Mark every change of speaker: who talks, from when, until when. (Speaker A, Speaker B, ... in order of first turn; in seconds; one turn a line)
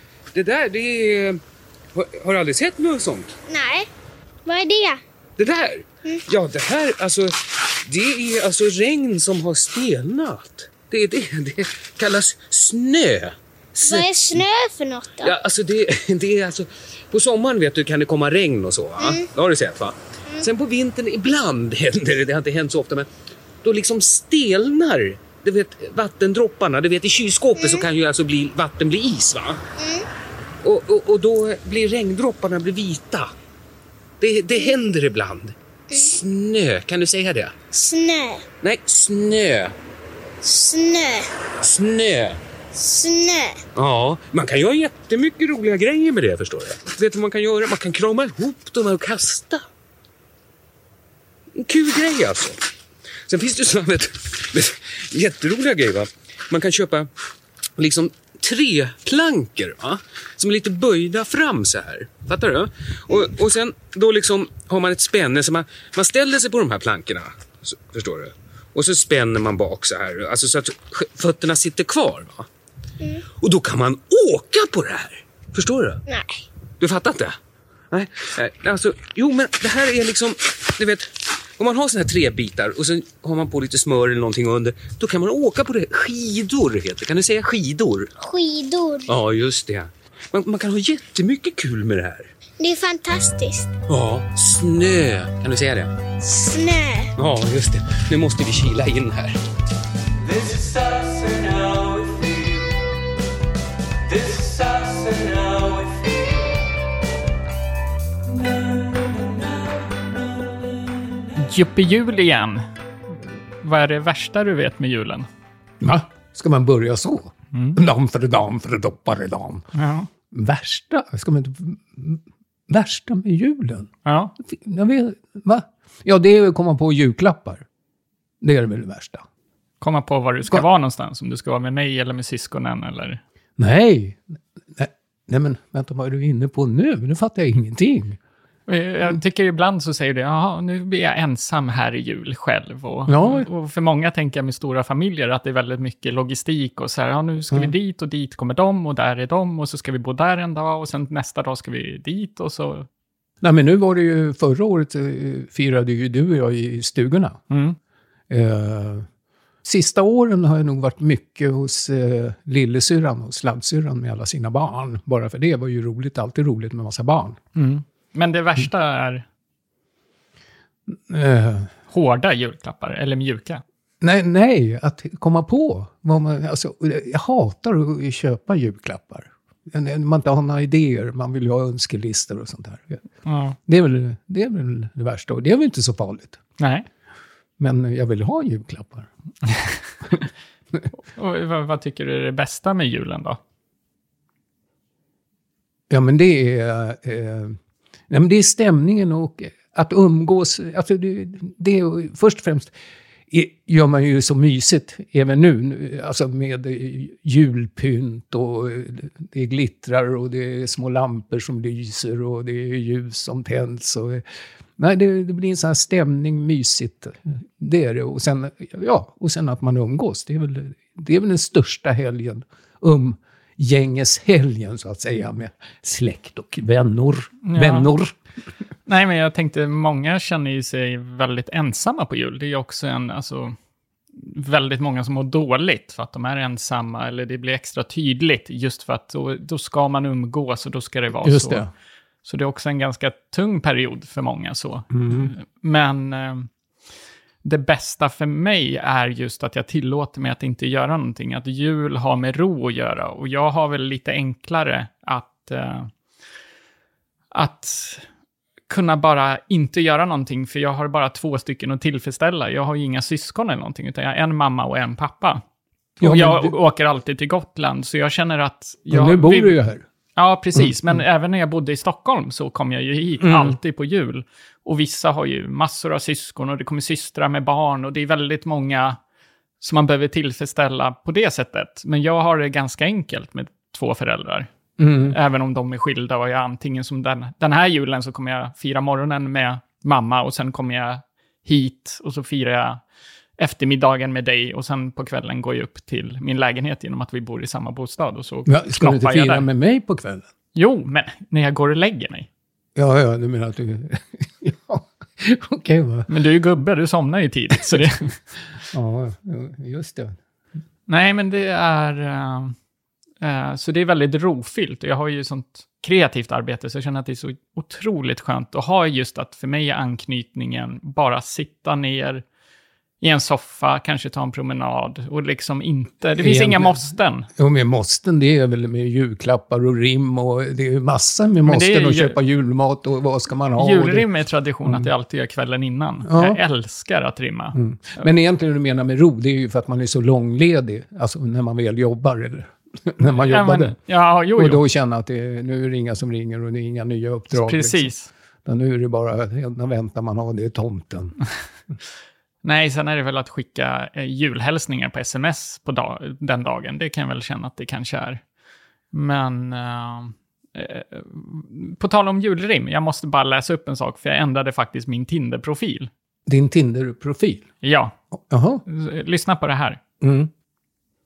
Speaker A: 0.3-1.4
Speaker A: 1.9-3.4
Speaker B: 3.5-3.9
Speaker B: 4.5-5.0
Speaker A: 5.4-14.4
Speaker B: 13.8-15.3
Speaker A: 15.2-23.1
Speaker A: 23.6-29.6
Speaker B: 27.6-27.9
Speaker B: 29.8-30.1
Speaker A: 30.6-33.3
Speaker A: 34.2-37.6
Speaker B: 37.7-38.5
Speaker A: 38.6-39.7
Speaker B: 40.4-41.3
Speaker A: 41.6-42.4
Speaker B: 42.7-43.6
Speaker A: 43.8-49.7
Speaker A: 51.6-52.6
Speaker A: 53.3-57.1
Speaker A: 57.8-72.5
Speaker A: 73.4-76.0
Speaker B: 76.1-76.5
Speaker A: 76.8-77.4
Speaker A: 77.9-88.1
Speaker B: 88.2-89.1
Speaker A: 89.1-92.3
Speaker B: 92.6-93.7
Speaker A: 93.9-96.0
Speaker B: 96.2-97.1
Speaker A: 97.2-99.4
Speaker A: 100.3-102.7
Speaker A: 104.1-106.4
Speaker C: 111.3-112.7
Speaker C: 113.6-115.3
Speaker D: 115.8-119.7
Speaker C: 117.5-117.8
Speaker C: 119.7-120.1
Speaker D: 120.3-127.7
Speaker C: 124.0-124.3
Speaker D: 128.4-129.2
Speaker C: 129.8-133.2
Speaker D: 133.6-138.2
Speaker C: 138.7-152.9
Speaker D: 143.1-143.5
Speaker D: 153.4-157.4
Speaker C: 157.5-157.8
Speaker D: 158.3-159.1
Speaker D: 159.6-167.4
Speaker C: 167.6-169.2
Speaker D: 170.9-171.7
Speaker C: 171.9-173.6
Speaker D: 174.0-183.0
Speaker C: 183.2-183.6
Speaker D: 183.7-186.4
Speaker C: 186.6-186.9
Speaker D: 187.6-189.1
Speaker C: 189.5-189.8
Speaker D: 190.1-190.8
Speaker C: 190.9-193.4
Speaker D: 195.9-197.6
Speaker D: 198.1-202.7
Speaker D: 203.3-214.2
Speaker D: 214.8-228.1
Speaker C: 227.4-227.9
Speaker C: 228.9-233.6
Speaker C: 234.2-241.7
Speaker D: 241.2-241.7
Speaker C: 242.2-246.5
Speaker D: 244.9-245.3
Speaker C: 247.4-255.9
Speaker C: 257.3-258.1
Speaker C: 258.7-265.4
Speaker D: 266.0-266.6
Speaker C: 266.0-269.6
Speaker D: 268.9-269.9
Speaker C: 270.1-279.0
Speaker D: 270.6-271.0
Speaker D: 273.2-273.6
Speaker C: 279.6-284.5
Speaker D: 284.8-285.2
Speaker C: 285.0-292.8
Speaker C: 293.4-299.5
Speaker D: 298.5-300.3
Speaker C: 300.5-302.3
Speaker D: 302.8-306.1
Speaker C: 306.1-308.2
Speaker D: 308.7-310.2
Speaker C: 310.9-312.6
Speaker C: 313.2-322.2
Speaker C: 323.0-327.3
Speaker D: 326.2-334.1
Speaker C: 331.4-332.1
Speaker C: 333.6-338.1
Speaker D: 334.6-334.9
Speaker D: 336.0-336.4
Speaker D: 337.6-343.8
Speaker C: 343.0-344.6
Speaker D: 344.4-347.9
Speaker C: 347.3-348.1
Speaker D: 348.5-351.2
Speaker C: 352.4-358.2
Speaker C: 358.9-365.9
Speaker D: 366.3-367.5
Speaker C: 367.6-367.9
Speaker D: 368.1-368.6
Speaker C: 368.7-369.8
Speaker D: 370.0-370.3